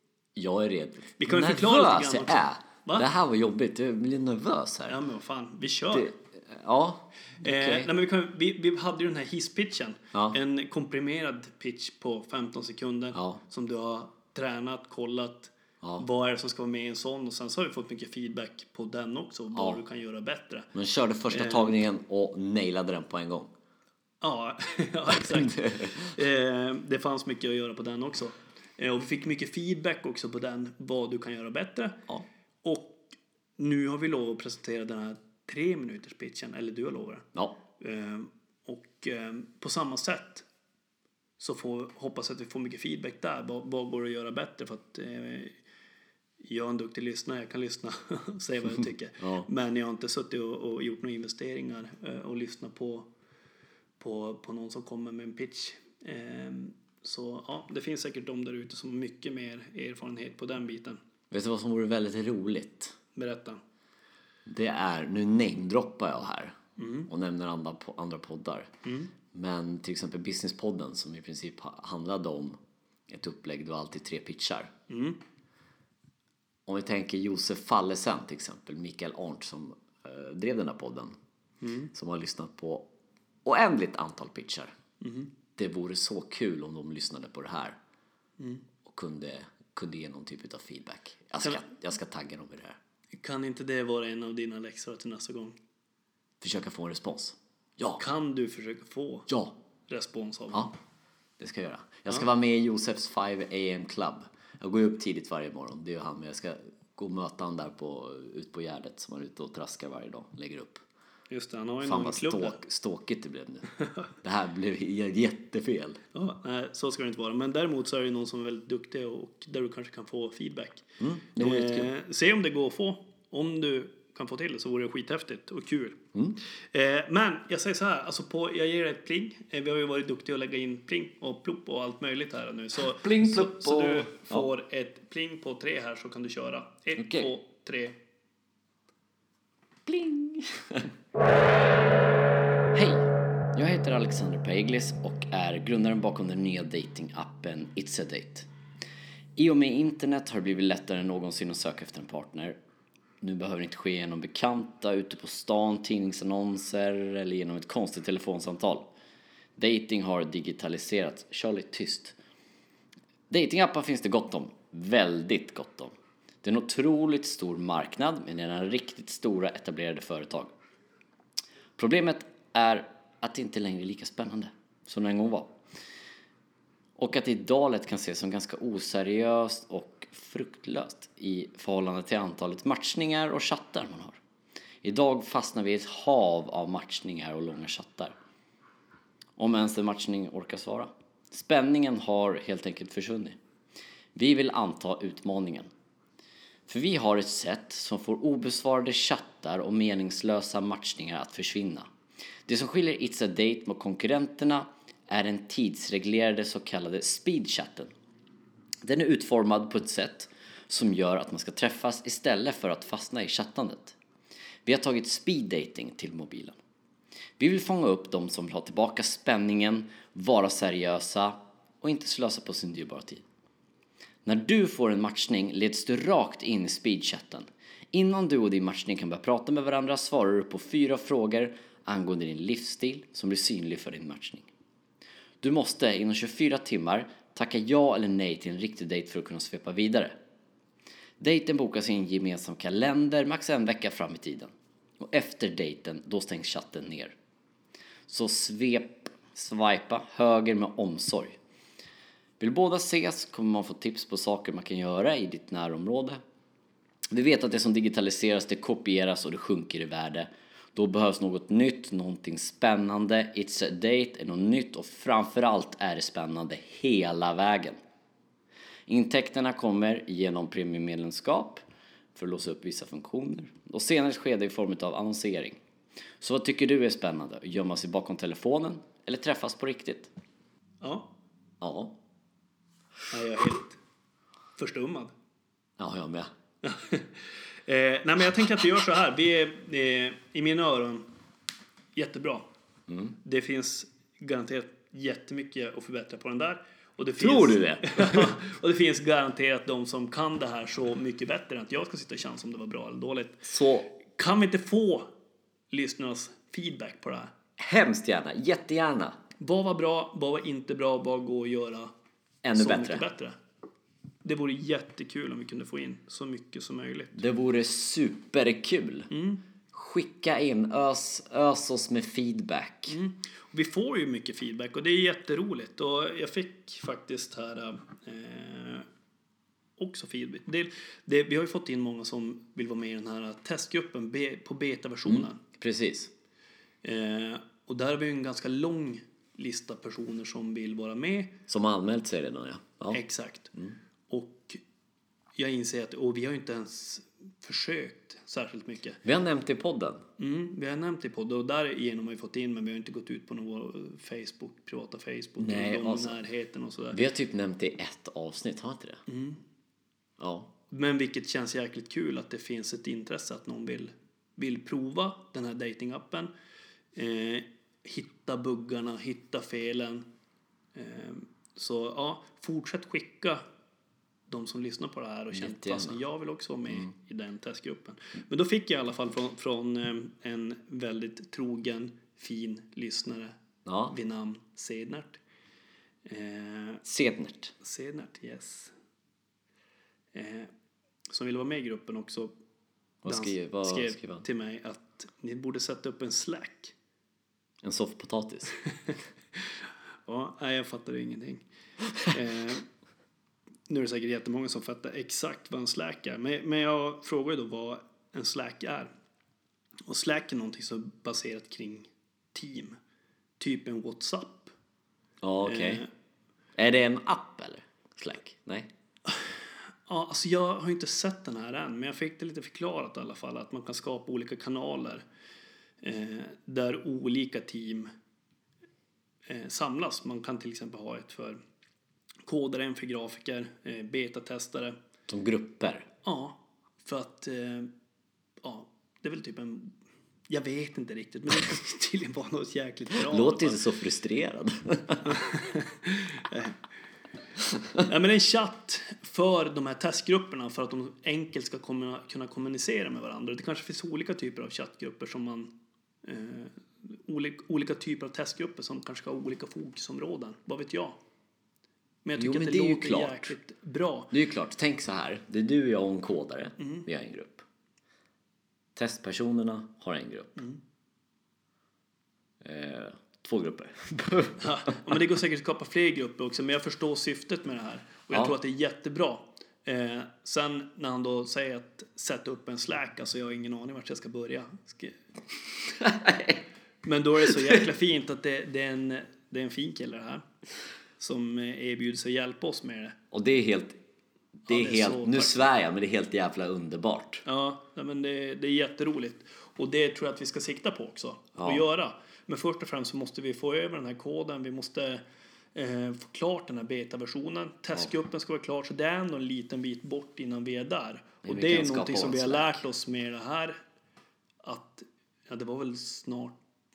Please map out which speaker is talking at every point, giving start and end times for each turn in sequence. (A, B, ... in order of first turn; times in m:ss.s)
0:00.4-0:05.0 A
0:01.2-0:03.1 B
0:04.9-0:06.1 B
0:05.9-0:07.9 A
0:07.4-0:20.7 B
0:10.1-0:10.4 A
0:13.1-0:13.4 A
0:19.5-0:19.8 A
0:20.7-0:23.5 A
0:21.3-0:21.8 B
0:24.2-0:32.0 B
0:25.1-0:26.1 A
0:32.6-0:37.3 B
0:37.8-0:40.5 B
0:41.4-0:45.6 B
0:46.4-0:53.1 B
0:49.2-0:49.5 A
0:54.0-1:01.0 B
1:01.3-1:03.0 A
1:03.2-1:03.6 B
1:04.5-1:08.7 A
1:06.8-1:07.1 B
1:08.8-1:09.1 B
1:09.3-1:14.7 A
1:14.9-1:15.2 B
1:16.7-1:21.2 A
1:21.6-1:21.9 B
1:21.9-1:22.9 A
1:23.4-1:24.7 A
1:25.0-1:25.3 B
1:25.6-1:27.8 A
1:28.4-1:28.6 B
1:28.8-1:32.8 A
1:33.2-1:35.6 B
1:36.4-1:38.0 A
1:38.0-1:39.3 B
1:39.3-1:39.6 A
1:39.9-1:40.7 B
1:41.4-1:50.8 A
1:51.3-1:52.6 B
1:51.8-1:53.7 A
1:54.2-1:56.0 A
1:56.1-2:00.9 B
2:01.0-2:01.9 A
2:01.4-2:06.0 B
2:06.7-2:18.0 B
2:12.8-2:14.5 A
2:17.0-2:17.3 A
2:19.9-2:20.9 A
2:22.7-2:28.5 A
2:29.4-2:32.6 A
2:33.2-2:38.9 A
2:39.6-2:42.2 A
2:43.3-2:50.5 A
2:51.8-2:55.6 A
2:57.0-3:04.2 A
3:04.8-3:08.1 A
3:09.4-3:13.4 A
3:14.2-3:15.7 A
3:16.7-3:21.9 A
3:22.5-3:27.9 A
3:28.8-3:34.0 A
3:34.6-3:36.6 A
3:37.4-3:43.2 A
3:44.2-3:54.5 A
3:55.4-4:00.2 A
4:01.2-4:07.2 A
4:08.1-4:11.4 A
4:12.4-4:16.2 A
4:17.1-4:27.8 A
4:28.9-4:31.6 A
4:32.2-4:35.6 A
4:36.2-4:40.1 A
4:40.8-4:41.1 B
4:41.6-4:42.0 A
4:43.1-4:43.8 B
4:44.6-4:45.1 B
4:45.8-4:46.3 A
4:46.6-4:51.1 B
4:52.0-4:52.5 B
4:52.9-4:53.2 A
4:53.2-5:05.1 B
4:57.2-4:58.4 A
5:03.4-5:03.9 A
5:05.7-5:07.3 B
5:07.6-5:09.2 A
5:09.4-5:11.9 B
5:12.4-5:13.0 A
5:12.6-5:13.4 B
5:14.2-5:17.2 B
5:17.2-5:19.1 A
5:19.1-5:19.4 B
5:19.7-5:23.0 A
5:22.9-5:28.9 B
5:29.8-5:35.4 B
5:35.1-5:36.1 A
5:36.8-5:41.4 B
5:41.5-5:43.0 A
5:42.9-5:43.5 B
5:44.1-5:44.6 B
5:45.4-5:49.0 B
5:49.0-5:50.0 A
5:50.2-5:57.0 B
5:55.4-5:56.2 A
5:56.9-5:59.0 A
5:59.1-5:59.4 B
6:00.2-6:00.5 A
6:00.7-6:06.3 B
6:07.0-6:10.0 B
6:10.8-6:13.4 B
6:14.3-6:23.4 B
6:15.3-6:16.0 A
6:23.6-6:24.0 A
6:23.9-6:25.2 B
6:26.1-6:26.8 B
6:26.8-6:27.5 A
6:27.6-6:28.7 B
6:30.1-6:30.5 B
6:31.1-6:32.3 B
6:33.0-6:34.2 A
6:33.1-6:36.8 B
6:37.6-6:38.6 A
6:40.1-6:41.4 B
6:42.0-6:42.6 B
6:43.7-6:48.9 B
6:49.9-6:52.8 B
6:53.4-6:54.5 B
6:55.2-6:55.8 A
6:55.4-6:55.9 B
6:56.6-6:58.7 A
6:59.9-7:05.0 B
7:05.8-7:07.9 B
7:09.3-7:11.4 B
7:12.3-7:14.8 B
7:15.1-7:15.9 A
7:16.0-7:17.7 B
7:18.4-7:19.7 B
7:20.3-7:23.6 B
7:22.9-7:25.2 A
7:25.0-7:26.6 B
7:27.8-7:35.5 B
7:36.0-7:41.0 B
7:42.0-7:44.1 B
7:42.2-7:43.4 A
7:44.1-7:47.4 A
7:46.6-7:46.9 B
7:48.8-7:50.4 A
7:52.4-7:54.7 A
7:54.4-8:05.0 B
8:05.7-8:06.4 A
8:06.8-8:10.2 B
8:11.0-8:13.0 B
8:13.1-8:13.8 A
8:14.5-8:15.4 B
8:14.5-8:17.2 A
8:17.2-8:25.0 B
8:21.4-8:21.6 A
8:25.5-8:33.6 B
8:31.2-8:32.6 A
8:34.4-8:36.4 B